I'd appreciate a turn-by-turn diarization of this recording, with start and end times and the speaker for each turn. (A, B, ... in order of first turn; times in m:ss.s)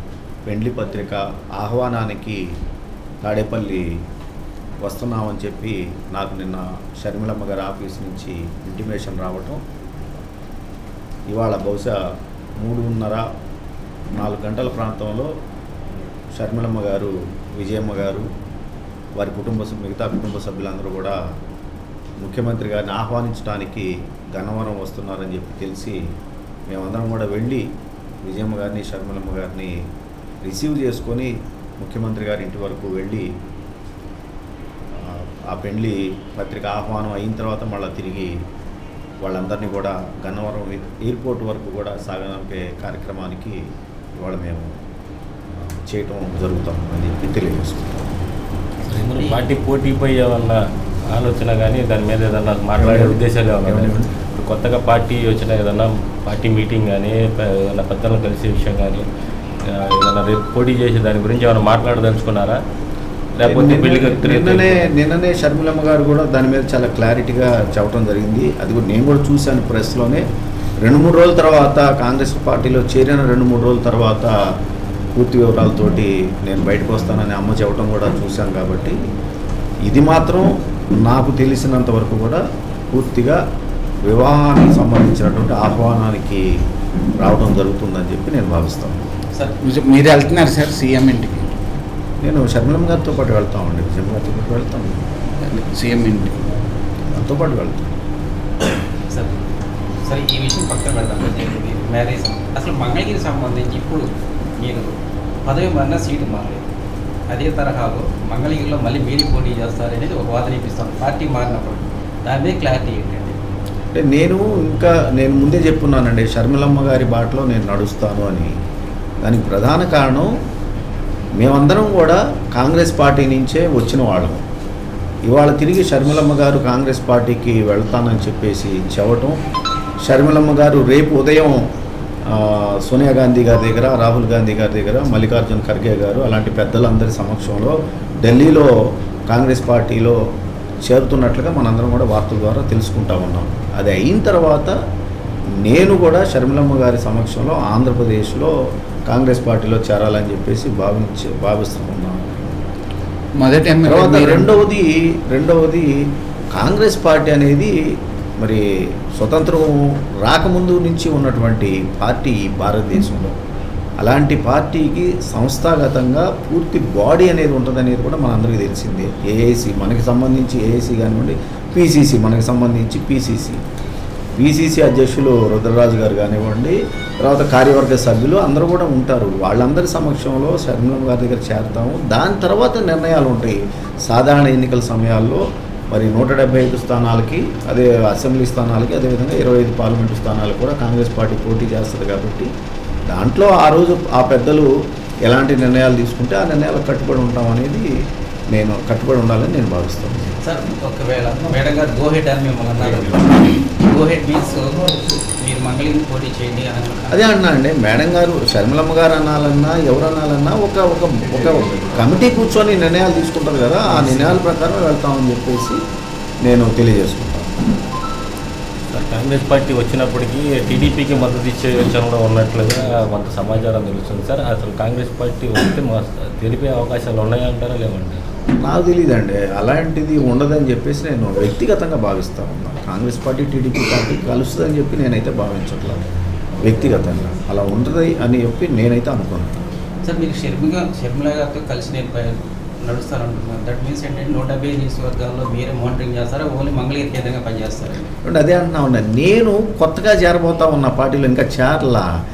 0:00.5-0:02.4 A
0:03.2-0:03.9 A
0:04.8-0:09.6 A
0:11.3-0:12.0 A
0:12.6-0:13.3 A
0:14.1-0:15.3 A
0:16.4-0:18.3 A
0:19.2-0:21.2 A
0:22.2-0:26.0 A
0:26.7-0:27.7 A
0:28.2-0:29.8 A
0:30.4-0:33.3 A
0:34.9-0:38.4 A
0:39.2-0:44.8 A
0:45.5-0:48.1 A
0:48.9-0:59.0 B
0:49.1-0:49.4 C
0:52.8-0:54.1 A
0:59.6-1:02.6 B
1:03.4-1:04.9 B
1:03.4-1:10.2 A
1:10.8-1:14.3 A
1:15.2-1:19.0 A
1:19.9-1:23.4 A
1:24.0-1:26.5 A
1:27.2-1:29.0 A
1:29.6-1:31.5 D
1:32.2-1:35.1 A
1:35.4-1:36.5 D
1:37.1-1:38.0 A
1:39.1-1:39.4 C
1:40.0-1:44.0 C
1:44.6-1:44.9 C
1:45.4-1:46.6 C
1:47.3-1:53.4 C
1:53.9-1:58.5 A
1:59.2-2:00.3 A
2:01.4-2:04.4 A
2:05.3-2:09.4 A
2:10.0-2:11.7 A
2:12.3-2:20.2 A
2:20.8-2:24.7 A
2:25.6-2:28.5 A
2:29.1-2:32.6 A
2:33.4-2:34.5 D
2:33.8-2:35.9 A
2:36.5-2:37.7 A
2:38.4-2:43.4 A
2:44.0-2:53.6 A
2:54.4-3:12.5 A
3:13.1-3:14.7 A
3:15.2-3:17.8 A
3:18.5-3:20.4 A
3:20.4-3:27.2 C
3:27.1-3:35.8 A
3:34.0-3:34.4 C
3:36.4-3:37.5 A
3:38.9-3:48.2 B
3:48.6-3:56.0 A
3:56.6-3:59.7 A
4:00.0-4:08.1 C
4:08.2-4:12.1 A